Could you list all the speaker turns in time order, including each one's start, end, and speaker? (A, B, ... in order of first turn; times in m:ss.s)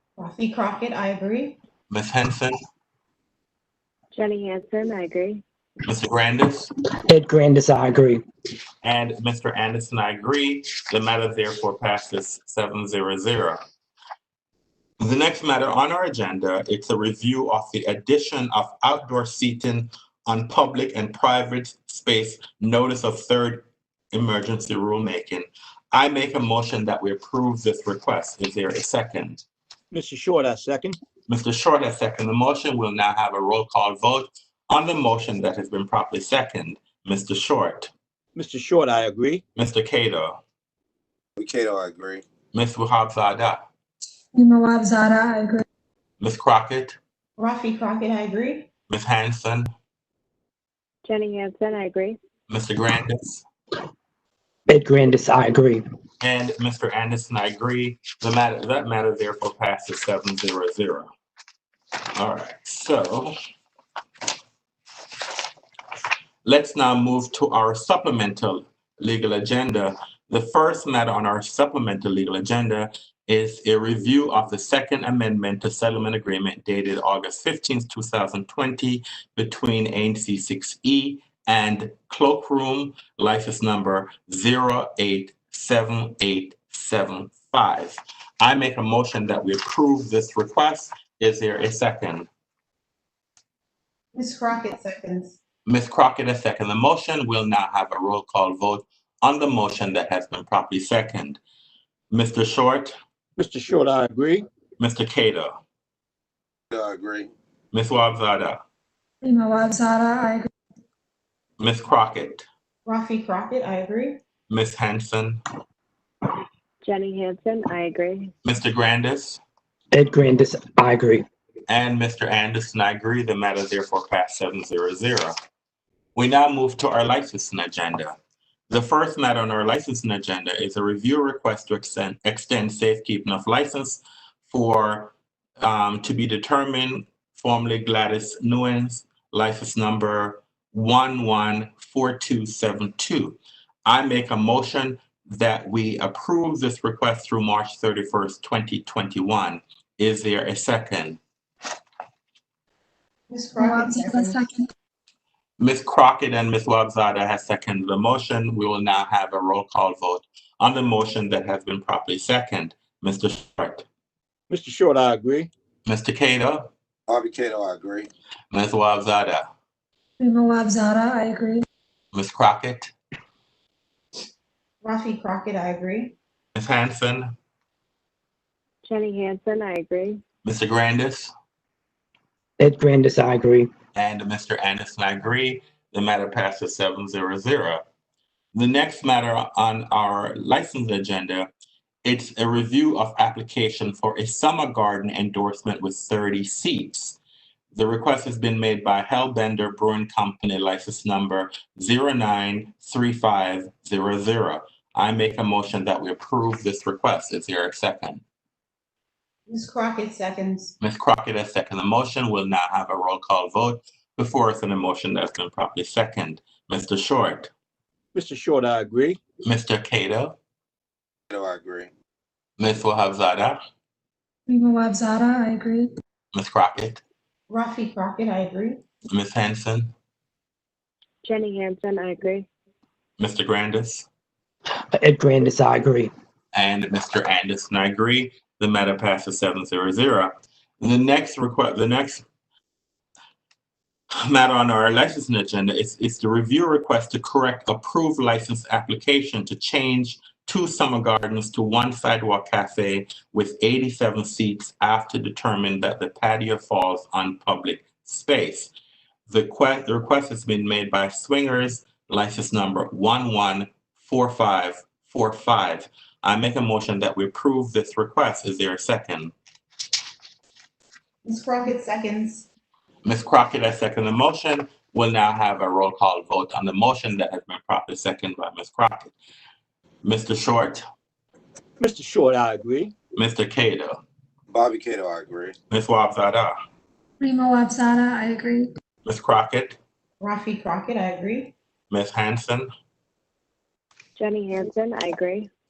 0:00.2-0:01.6 A
0:01.9-0:02.6 B
0:04.1-0:05.4 C
0:05.8-0:06.7 B
0:07.1-0:08.2 D
0:08.8-0:13.6 B
0:15.0-0:29.4 B
0:29.9-0:31.0 E
0:31.3-0:37.9 B
0:38.4-0:39.4 E
0:39.5-0:40.4 B
0:41.4-0:42.2 F
0:42.5-0:43.6 B
0:44.3-0:45.6 G
0:46.2-0:47.0 B
0:47.4-0:48.7 A
0:48.9-0:49.7 B
0:51.0-0:52.2 C
0:52.5-0:53.4 B
0:54.7-0:55.8 D
0:56.2-1:01.1 B
1:02.1-1:03.3 B
1:06.4-1:32.3 B
1:34.1-1:35.4 A
1:35.6-1:41.4 B
1:42.1-1:42.9 B
1:43.4-1:44.4 E
1:44.8-1:45.5 B
1:46.7-1:47.3 F
1:47.7-1:48.6 B
1:49.2-1:50.5 G
1:51.6-1:52.5 B
1:52.8-1:54.2 A
1:54.5-1:55.4 B
1:56.8-1:58.3 C
1:58.4-1:59.4 B
1:59.9-2:01.2 D
2:01.7-2:05.3 B
2:06.1-2:08.1 B
2:08.7-2:31.2 B
2:33.3-2:34.4 A
2:33.6-2:34.7 G
2:35.6-2:43.8 B
2:44.5-2:45.5 E
2:45.8-2:46.7 B
2:47.1-2:48.1 F
2:48.5-2:49.5 B
2:50.2-2:51.6 G
2:52.1-2:52.9 B
2:54.8-2:56.2 A
2:56.5-2:57.3 B
2:58.8-3:00.2 C
3:00.4-3:01.3 B
3:02.6-3:03.7 D
3:03.9-3:07.8 B
3:08.5-3:11.5 B
3:12.0-3:17.2 B
3:17.7-3:28.2 B
3:29.5-3:30.7 A
3:30.8-3:37.5 B
3:38.1-3:39.2 E
3:39.4-3:40.4 B
3:41.3-3:41.9 F
3:42.6-3:43.6 B
3:44.5-3:45.9 G
3:46.3-3:47.0 B
3:47.5-3:48.8 A
3:49.1-3:49.9 B
3:51.2-3:52.5 C
3:53.2-3:54.1 B
3:54.9-3:56.1 D
3:56.5-4:02.2 B
4:04.1-4:18.7 B
4:19.3-4:29.3 B
4:31.2-4:32.5 A
4:33.0-4:39.1 B
4:40.0-4:40.8 B
4:41.8-4:42.9 E
4:43.1-4:44.0 B
4:44.5-4:45.6 F
4:45.7-4:46.5 B
4:47.2-4:48.7 G
4:49.0-4:49.8 B
4:50.2-4:51.5 A
4:51.9-4:52.7 B
4:54.2-4:55.5 C